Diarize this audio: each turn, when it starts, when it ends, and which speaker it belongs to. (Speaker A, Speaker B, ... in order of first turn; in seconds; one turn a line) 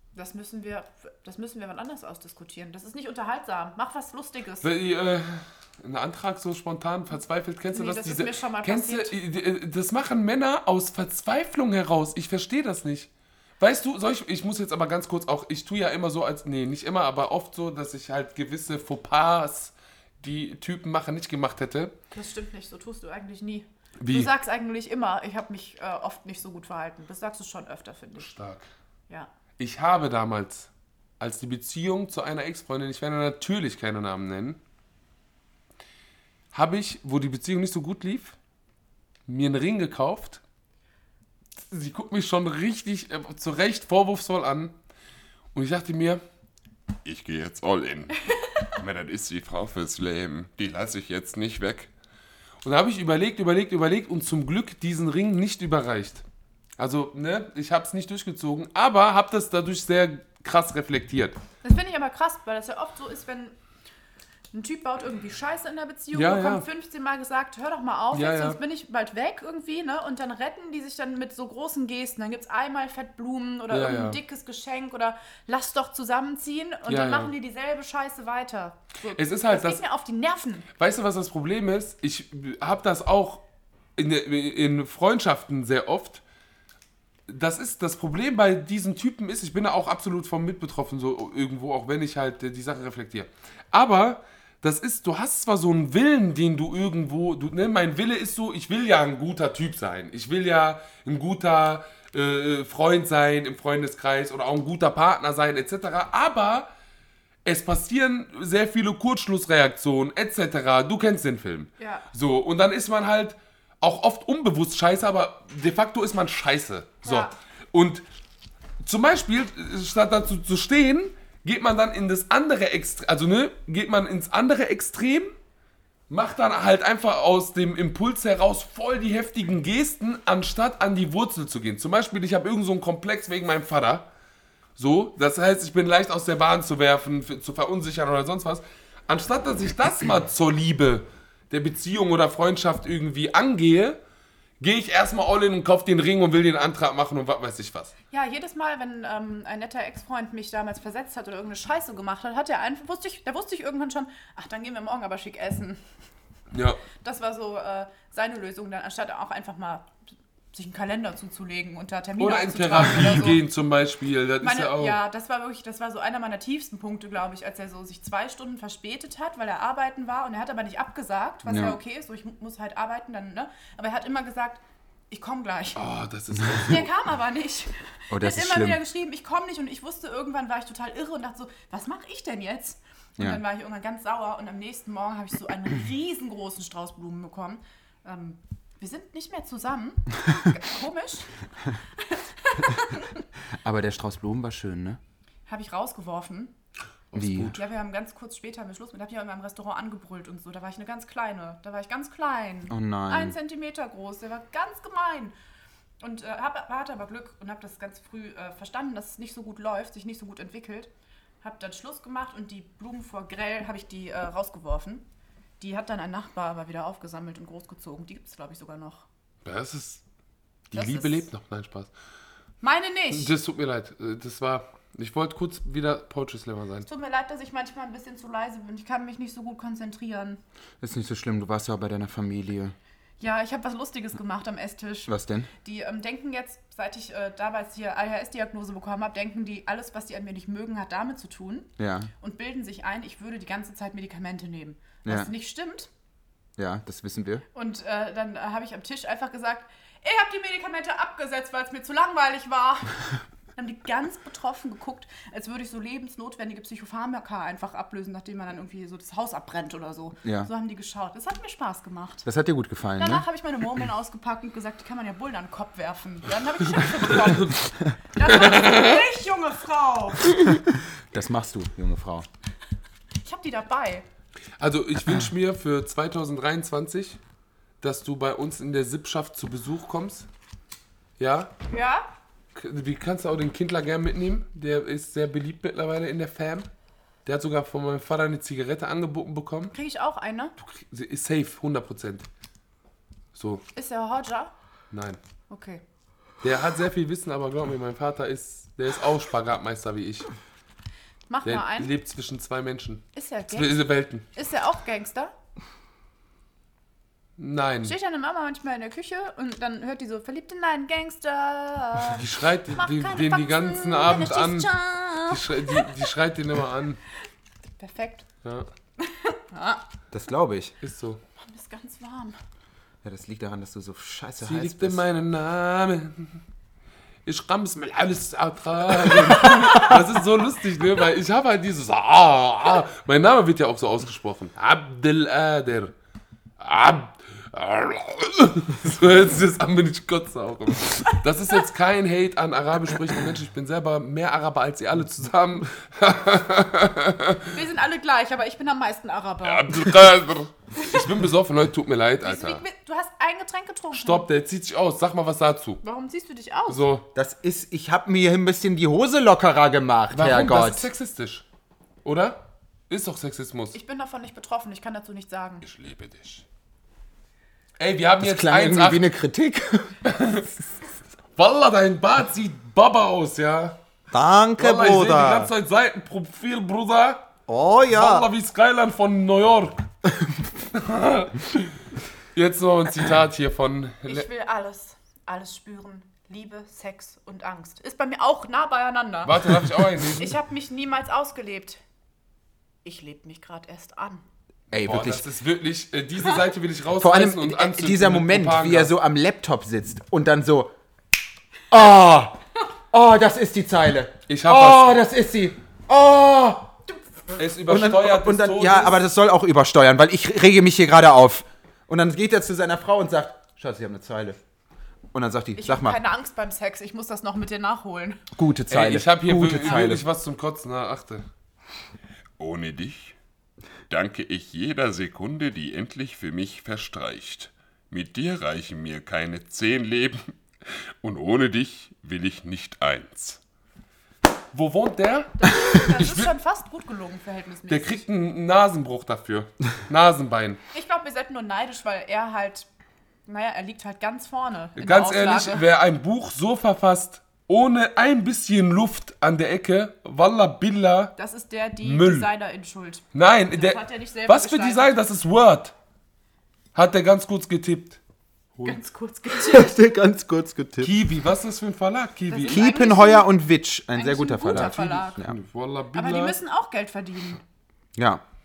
Speaker A: 0.1-4.7
Speaker B: 4.6-21.9
Speaker A: 7.7-9.1
Speaker A: 22.1-28.3
Speaker B: 24.0-24.3
Speaker B: 28.2-28.7
Speaker B: 29.6-34.6
Speaker B: 36.5-38.4
Speaker B: 39.3-40.4
Speaker B: 41.6-44.7
Speaker B: 45.5-46.2
Speaker C: 47.0-48.2
Speaker C: 48.8-51.9
Speaker B: 52.6-56.2
Speaker B: 56.8-61.4
Speaker A: 61.6-63.5
Speaker A: 64.5-80.7
Speaker B: 66.1-66.6
Speaker B: 68.1-68.6
Speaker B: 73.7-74.2
Speaker B: 76.9-77.3
Speaker B: 79.1-79.8
Speaker B: 80.8-83.4
Speaker B: 84.0-86.2
Speaker B: 87.3-106.7
Speaker B: 107.4-118.0
Speaker A: 111.8-112.1
Speaker A: 117.0-117.3
Speaker B: 118.8-125.3
Speaker B: 126.1-134.1
Speaker B: 134.8-144.0
Speaker B: 144.6-147.9
Speaker A: 148.1-155.8
Speaker B: 156.5-156.8
Speaker A: 157.0-159.9
Speaker A: 160.5-163.4
Speaker B: 162.2-165.0
Speaker A: 164.4-175.8
Speaker D: 171.4-171.8
Speaker B: 175.8-176.9
Speaker A: 176.6-191.3
Speaker D: 178.1-178.8
Speaker A: 192.0-193.2
Speaker D: 193.6-195.0
Speaker A: 195.5-196.5
Speaker B: 197.1-197.6
Speaker D: 197.1-197.5
Speaker A: 197.4-205.3
Speaker D: 202.7-203.3
Speaker A: 206.0-210.9
Speaker A: 211.4-215.1
Speaker A: 215.6-219.0
Speaker B: 219.4-220.0
Speaker B: 220.7-221.9
Speaker A: 220.7-221.3
Speaker A: 222.6-223.3
Speaker B: 223.1-226.9
Speaker A: 226.9-230.4
Speaker D: 230.8-232.7
Speaker A: 233.2-245.9
Speaker D: 235.1-235.5
Speaker D: 241.8-242.1
Speaker D: 245.0-245.3
Speaker D: 246.6-247.4
Speaker A: 247.5-253.0
Speaker A: 253.6-262.2
Speaker D: 260.2-260.5
Speaker D: 262.2-263.2
Speaker A: 263.0-270.4
Speaker D: 270.5-272.2
Speaker A: 273.2-274.0
Speaker B: 274.6-277.2
Speaker B: 277.8-280.3
Speaker B: 281.2-281.5
Speaker A: 281.7-282.1
Speaker B: 282.5-286.7
Speaker B: 287.2-289.7
Speaker A: 289.7-290.5
Speaker B: 290.6-292.3
Speaker B: 293.3-293.6
Speaker A: 293.7-294.5
Speaker B: 294.9-295.2
Speaker A: 295.5-295.8
Speaker B: 296.4-300.3
Speaker A: 301.3-301.9
Speaker B: 301.4-304.2
Speaker A: 303.1-303.8
Speaker A: 304.3-305.3
Speaker B: 307.4-307.9
Speaker A: 307.8-312.2
Speaker B: 312.1-317.0
Speaker A: 312.7-315.9
Speaker A: 317.8-318.2
Speaker A: 319.0-319.8
Speaker D: 320.1-320.7
Speaker B: 320.8-321.2
Speaker A: 321.4-322.4
Speaker D: 323.0-325.0
Speaker B: 324.4-326.4
Speaker B: 327.2-335.9
Speaker B: 336.6-347.5
Speaker A: 347.5-349.9
Speaker C: 349.4-350.5
Speaker B: 350.8-352.6
Speaker A: 352.2-354.2
Speaker B: 353.9-355.8
Speaker A: 355.8-356.8
Speaker B: 356.7-357.1
Speaker D: 357.1-360.9
Speaker B: 360.1-361.4
Speaker B: 362.0-363.8
Speaker A: 363.7-365.6
Speaker C: 365.6-366.4
Speaker B: 367.8-369.1
Speaker D: 368.2-370.0
Speaker B: 370.0-370.5
Speaker B: 371.4-373.8
Speaker D: 374.1-375.5
Speaker B: 374.6-377.3
Speaker D: 377.5-378.3
Speaker B: 377.9-379.8
Speaker B: 380.7-381.7
Speaker B: 382.3-384.3
Speaker A: 384.0-391.8
Speaker B: 389.2-390.4
Speaker A: 392.8-394.2
Speaker D: 394.7-395.2
Speaker B: 394.7-398.9
Speaker D: 397.0-400.7
Speaker D: 401.7-402.4
Speaker D: 402.9-406.7
Speaker B: 404.3-405.0
Speaker B: 407.4-409.0
Speaker D: 407.7-414.4
Speaker D: 415.1-416.0
Speaker A: 415.6-418.2
Speaker D: 418.4-420.0
Speaker B: 418.7-421.2
Speaker C: 422.4-423.1
Speaker C: 423.9-430.3
Speaker C: 431.0-433.4
Speaker B: 434.5-436.3
Speaker A: 435.4-438.0
Speaker B: 437.7-440.6
Speaker A: 440.7-442.7
Speaker A: 443.3-445.6
Speaker B: 444.8-451.1
Speaker A: 451.2-454.9
Speaker B: 451.8-452.3
Speaker B: 453.1-455.7
Speaker B: 456.7-458.0
Speaker A: 458.6-459.8
Speaker D: 459.3-460.9
Speaker B: 460.8-462.7
Speaker A: 462.3-463.3
Speaker D: 462.5-465.4
Speaker A: 463.9-465.2
Speaker B: 464.5-466.4
Speaker A: 465.9-467.4
Speaker D: 467.9-468.2